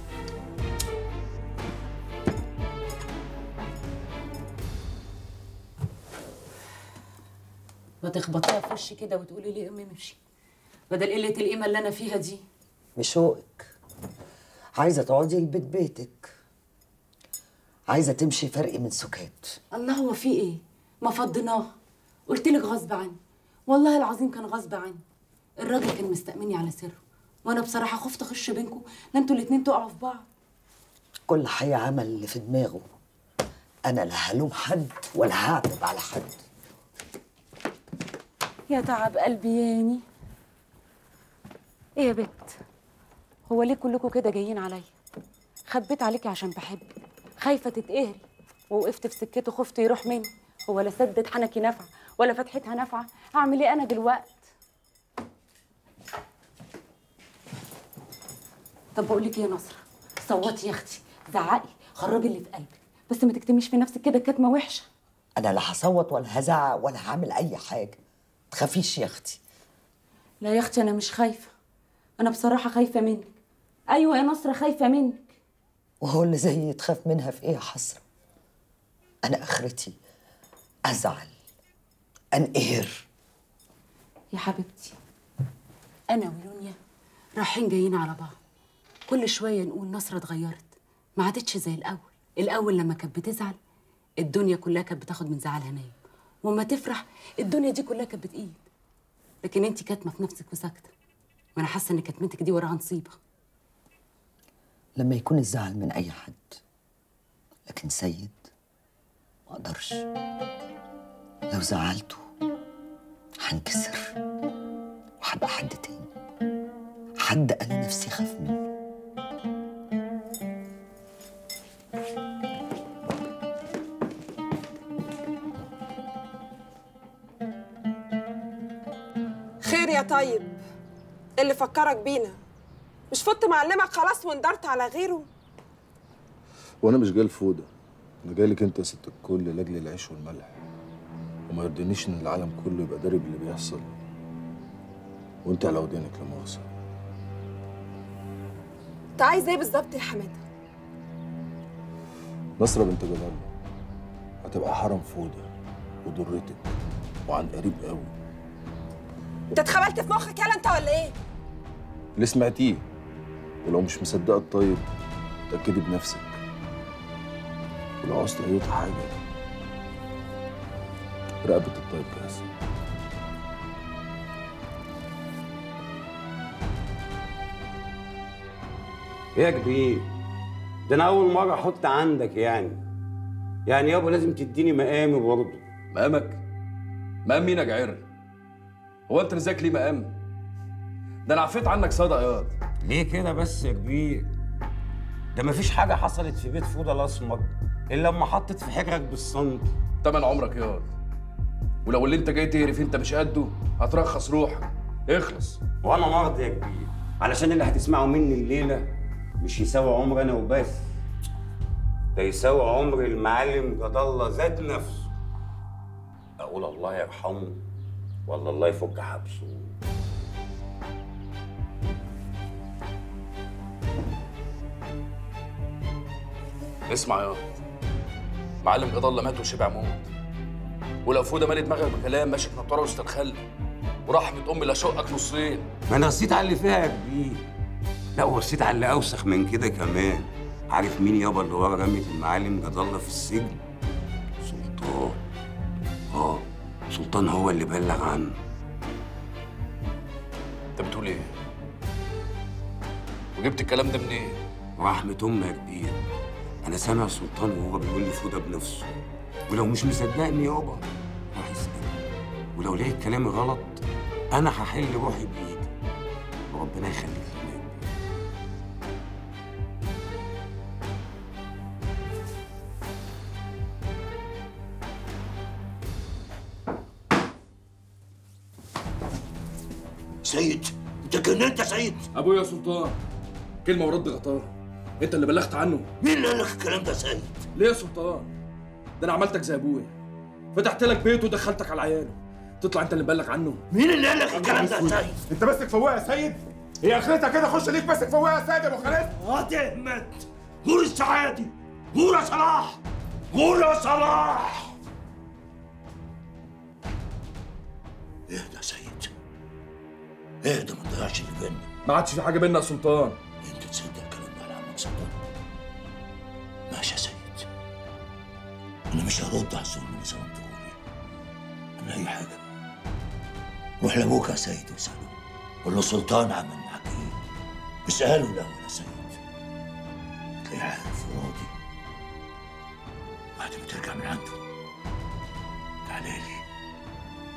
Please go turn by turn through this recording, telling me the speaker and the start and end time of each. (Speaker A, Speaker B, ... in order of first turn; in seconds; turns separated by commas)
Speaker A: 8.0-10.2, Speaker A: 10.9-12.4, Speaker B: 13.0-13.7, Speaker B: 14.8-16.3, Speaker B: 17.9-19.6, Speaker A: 19.7-21.7, Speaker A: 22.3-25.0, Speaker A: 25.6-30.3, Speaker B: 31.3-32.9, Speaker B: 33.9-36.4, Speaker A: 38.7-40.0, Speaker A: 42.0-42.6, Speaker A: 43.5-44.9, Speaker A: 45.7-46.9, Speaker A: 47.4-54.5, Speaker A: 59.0-64.9, Speaker B: 65.4-68.0, Speaker B: 68.5-69.4, Speaker A: 70.4-71.5, Speaker A: 72.2-73.3, Speaker A: 73.9-75.3, Speaker B: 76.0-78.0, Speaker B: 79.2-80.0, Speaker B: 80.9-81.3, Speaker B: 82.3-83.1, Speaker A: 84.3-85.0, Speaker A: 86.1-86.8, Speaker A: 87.4-88.4, Speaker A: 89.1-93.6, Speaker A: 94.2-98.6, Speaker A: 99.4-100.9, Speaker A: 101.5-103.2, Speaker B: 105.0-106.6, Speaker B: 107.7-108.5, Speaker B: 109.5-110.0, Speaker B: 111.5-112.2, Speaker B: 113.4-114.1, Speaker B: 115.2-116.1, Speaker B: 117.2-118.6, Speaker C: 129.6-130.6, Speaker C: 131.4-132.4, Speaker C: 133.1-135.3, Speaker D: 136.8-137.7, Speaker D: 138.2-140.6, Speaker D: 141.5-144.0, Speaker D: 145.4-146.7, Speaker C: 149.2-150.4, Speaker D: 152.6-153.5, Speaker D: 154.4-155.5, Speaker D: 156.0-156.7, Speaker D: 157.3-158.1, Speaker C: 159.5-161.2, Speaker D: 162.2-162.8, Speaker D: 163.6-164.8, Speaker D: 165.5-166.4, Speaker D: 168.0-169.2, Speaker D: 171.4-172.4, Speaker E: 179.3-180.1, Speaker E: 180.9-182.8, Speaker E: 183.7-185.6, Speaker F: 185.9-186.4, Speaker F: 187.2-188.0, Speaker F: 189.1-190.1, Speaker F: 191.3-192.6, Speaker E: 192.8-194.3, Speaker E: 195.3-199.7, Speaker F: 200.0-200.9, Speaker F: 201.8-205.6, Speaker E: 205.8-210.9, Speaker E: 212.2-215.1, Speaker E: 216.4-217.6, Speaker E: 218.3-219.7, Speaker F: 226.9-227.4, Speaker F: 228.6-230.1, Speaker F: 231.1-233.4, Speaker F: 234.1-235.7, Speaker E: 235.9-237.4, Speaker E: 238.2-243.6, Speaker E: 244.4-245.2, Speaker E: 246.1-248.4, Speaker F: 250.8-251.3, Speaker F: 253.4-254.4, Speaker E: 254.8-256.0, Speaker E: 256.6-258.9, Speaker E: 259.5-261.9, Speaker E: 262.6-263.8, Speaker E: 264.3-265.7, Speaker E: 266.5-267.8, Speaker G: 280.2-282.1, Speaker F: 282.1-283.0, Speaker F: 283.6-284.5, Speaker F: 285.0-285.9, Speaker G: 286.0-287.4, Speaker F: 287.6-288.3, Speaker F: 289.0-289.9, Speaker F: 290.5-293.6, Speaker G: 293.7-295.2, Speaker H: 295.4-296.4, Speaker H: 297.2-299.0, Speaker G: 299.1-302.8, Speaker G: 303.3-304.7, Speaker G: 308.3-309.1, Speaker G: 310.4-311.7, Speaker F: 311.9-313.2, Speaker G: 313.4-315.2, Speaker G: 316.7-317.5, Speaker G: 318.9-320.8, Speaker G: 321.8-322.4, Speaker G: 323.8-325.1, Speaker G: 325.6-327.2, Speaker G: 327.9-329.2, Speaker G: 330.4-331.5, Speaker G: 333.4-334.4, Speaker G: 335.9-336.4